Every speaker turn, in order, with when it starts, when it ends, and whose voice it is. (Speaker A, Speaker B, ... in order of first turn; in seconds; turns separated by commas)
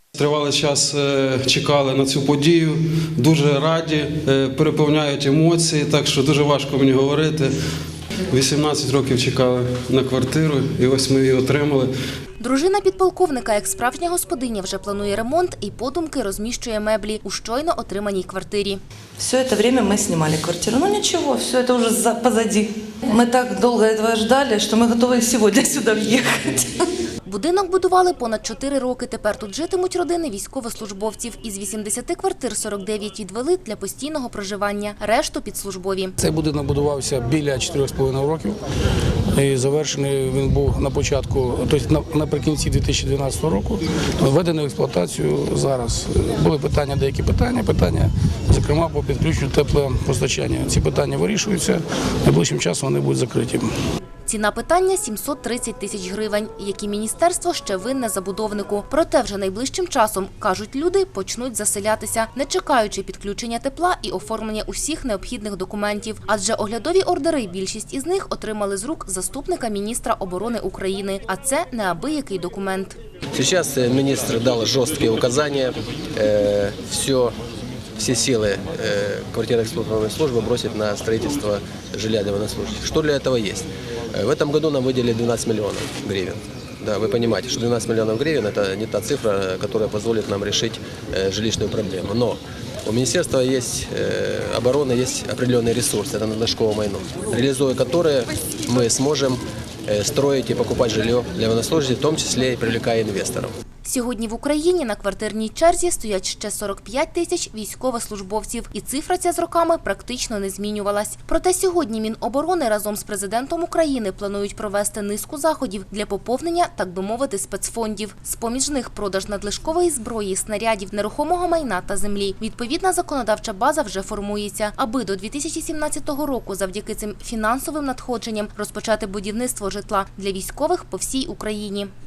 Speaker A: 0.2-7.5, Speaker A: 8.4-11.9, Speaker B: 12.4-18.8, Speaker C: 19.2-26.7, Speaker B: 27.2-36.1, Speaker D: 36.2-38.6, Speaker D: 39.3-53.7, Speaker B: 54.3-73.0, Speaker E: 73.3-77.3, Speaker E: 78.0-103.5, Speaker B: 103.8-131.9